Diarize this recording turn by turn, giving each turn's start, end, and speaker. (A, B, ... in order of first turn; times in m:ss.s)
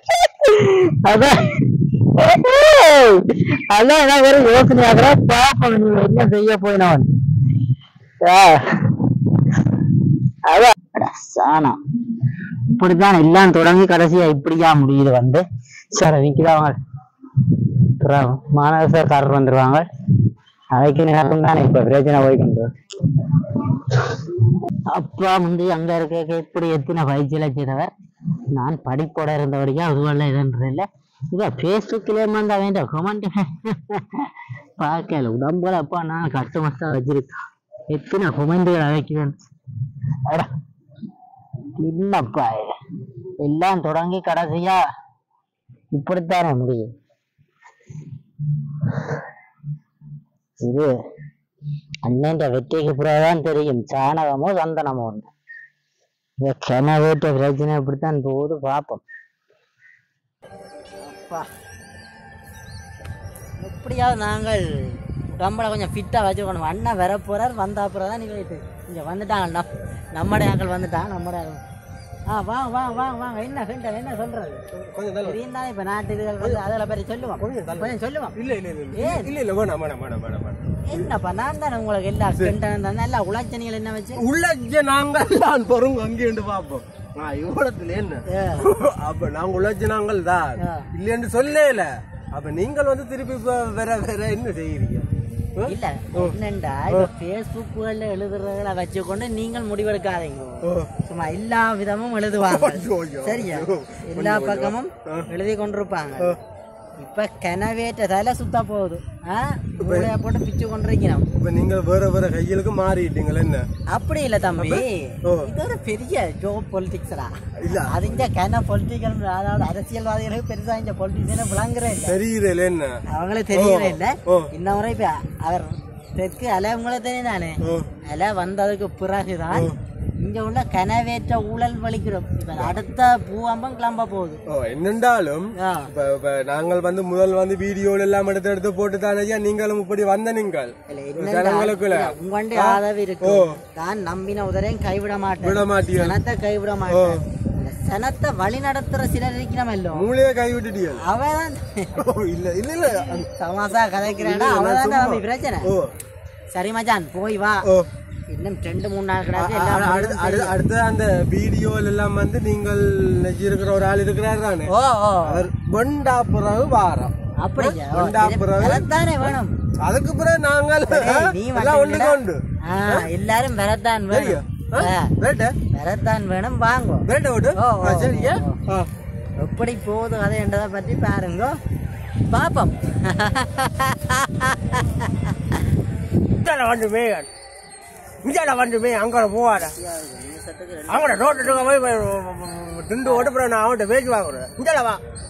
0:00.6-0:01.5 A
0:02.2-0:07.0 A
0:08.2-0:08.6 A
0:10.5-0:11.8 A
0:12.8-0:15.4 A
0:15.9-0:16.7 A
0:18.0-0:19.8 A
0:20.7-0:22.7 A
0:24.9-0:27.9 A
0:28.5-0:34.0 A
0:34.8-0:37.3 A
0:37.9-0:39.3 A
0:41.8-0:42.6 A
0:43.4-0:44.8 A
0:45.9-0:46.9 A
0:50.6-0:50.9 A
0:52.0-0:55.3 A
0:56.4-0:59.0 A
1:01.0-1:01.5 A
1:03.6-1:11.6 A
1:12.3-1:14.6 A
1:14.7-1:15.4 B
1:15.2-1:18.4 A
1:17.4-1:21.1 B
1:18.9-1:19.3 A
1:20.9-1:24.2 A
1:24.2-1:36.4 B
1:28.3-1:28.7 A
1:30.6-1:30.9 A
1:35.6-1:46.4 A
1:40.6-1:40.9 B
1:42.3-1:45.3 B
1:47.0-1:51.3 A
1:49.8-1:50.1 B
1:51.3-1:53.6 B
1:53.9-2:02.2 A
1:54.6-1:55.5 B
1:57.6-1:58.3 B
2:02.0-2:03.0 B
2:03.1-2:14.4 A
2:03.5-2:04.5 B
2:07.6-2:07.9 B
2:09.5-2:09.8 B
2:14.5-2:23.6 B
2:15.6-2:15.9 A
2:20.9-2:30.1 A
2:25.4-2:26.2 B
2:26.9-2:27.2 B
2:29.9-2:31.0 B
2:31.0-2:32.0 A
2:31.9-2:33.2 B
2:32.8-2:35.7 A
2:34.0-2:35.9 B
2:36.5-2:37.7 A
2:38.3-2:40.6 A
2:39.3-2:44.7 B
2:44.7-2:45.5 A
2:45.2-2:53.1 B
2:47.4-2:49.5 A
2:50.9-2:55.1 A
2:54.1-2:55.6 B
2:55.7-2:58.6 A
2:57.0-2:58.9 B
2:59.4-3:01.6 A
3:02.3-3:05.8 A
3:06.3-3:07.3 B
3:08.2-3:09.7 B
3:09.6-3:11.7 A
3:10.9-3:15.0 B
3:13.0-3:13.3 A